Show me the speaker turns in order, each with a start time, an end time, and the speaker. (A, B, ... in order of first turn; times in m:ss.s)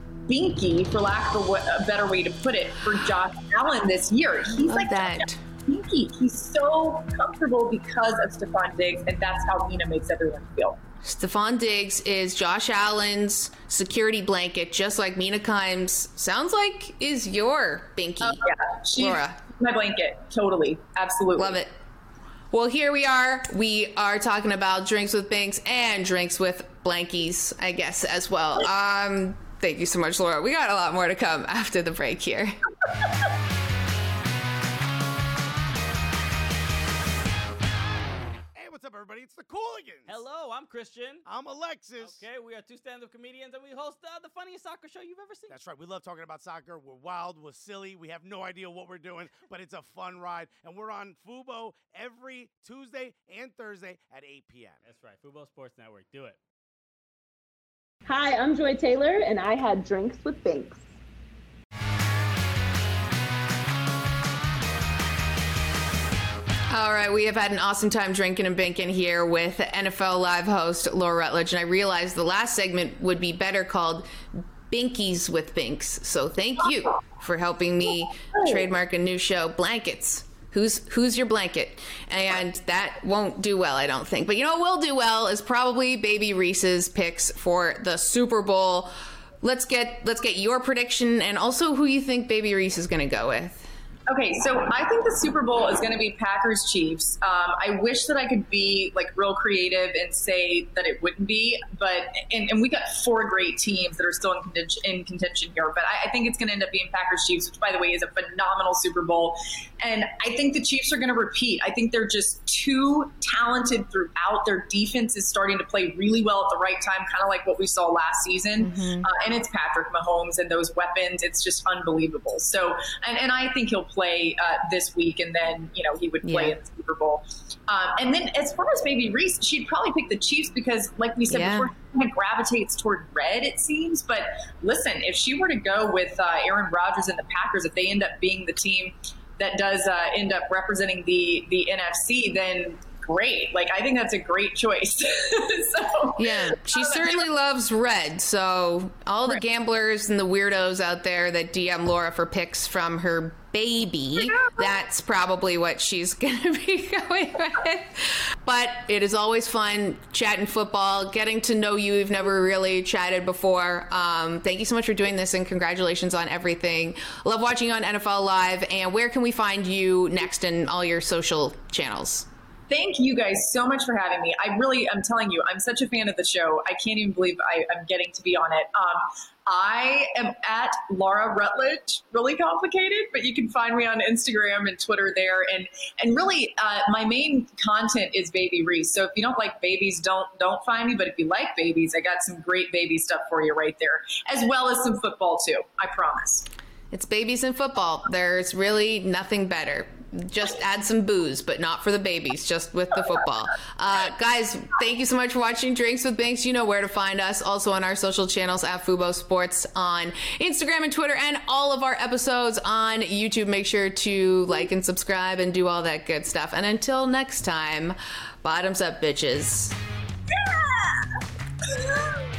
0:00.3-0:10.8 A
0:04.6-0:05.4 B
0:11.0-0:18.4 B
0:18.2-0:21.6 A
0:19.0-0:19.4 B
0:21.4-0:21.7 B
0:22.5-0:32.6 B
0:38.6-0:40.2 C
0:40.1-0:41.3 D
0:41.3-0:42.3 C
0:42.0-0:45.6 D
0:45.5-0:54.9 C
0:54.8-0:56.4 D
0:58.1-1:00.8 E
1:06.7-1:28.9 B
1:29.4-1:33.7 B
1:34.1-2:27.2 A
1:58.6-1:59.1 B
2:06.2-2:06.6 B
2:11.3-2:11.7 B
2:26.2-2:52.3 B
2:52.7-3:16.5 A
3:16.9-3:39.8 B
3:40.3-3:41.0 A
3:41.7-3:42.2 A